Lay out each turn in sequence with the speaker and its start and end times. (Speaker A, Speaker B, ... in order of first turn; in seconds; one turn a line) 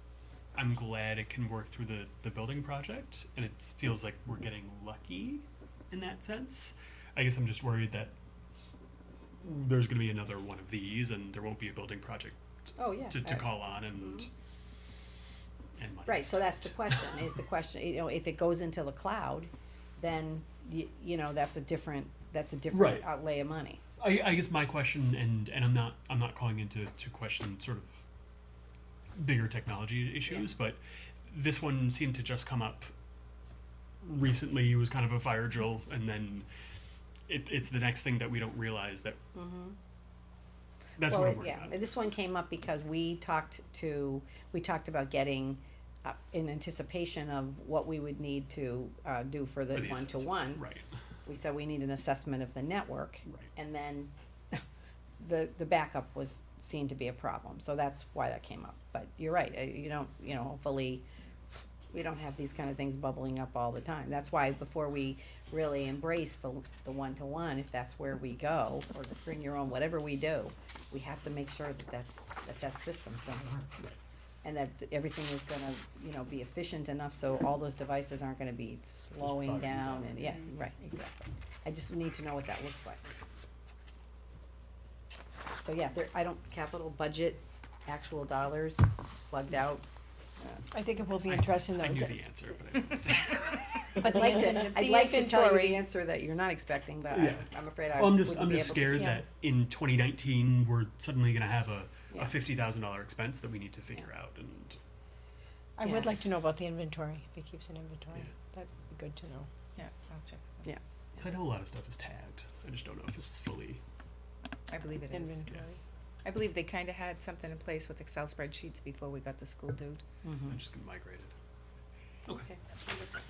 Speaker A: 0.5-8.1
Speaker A: 9.4-14.3
Speaker B: 12.8-14.3
Speaker A: 15.8-17.3
Speaker B: 16.1-23.8
Speaker A: 22.7-23.1
Speaker A: 24.0-28.0
Speaker A: 29.2-32.9
Speaker A: 34.0-36.5
Speaker A: 37.3-39.2
Speaker B: 39.3-39.8
Speaker A: 41.0-41.7
Speaker B: 41.0-50.6
Speaker A: 49.7-50.9
Speaker B: 51.2-54.6
Speaker B: 55.2-61.0
Speaker B: 61.9-73.7
Speaker B: 74.4-83.1
Speaker A: 79.2-80.4
Speaker B: 85.6-89.8
Speaker C: 90.7-92.1
Speaker A: 91.3-93.8
Speaker C: 94.0-95.8
Speaker B: 94.0-99.2
Speaker A: 97.1-104.8
Speaker C: 105.8-109.5
Speaker B: 105.8-106.1
Speaker D: 109.8-110.7
Speaker B: 110.6-111.2
Speaker A: 111.2-113.8
Speaker D: 114.7-115.4
Speaker C: 115.1-115.8
Speaker D: 116.2-120.0
Speaker B: 120.2-120.6
Speaker A: 120.5-121.3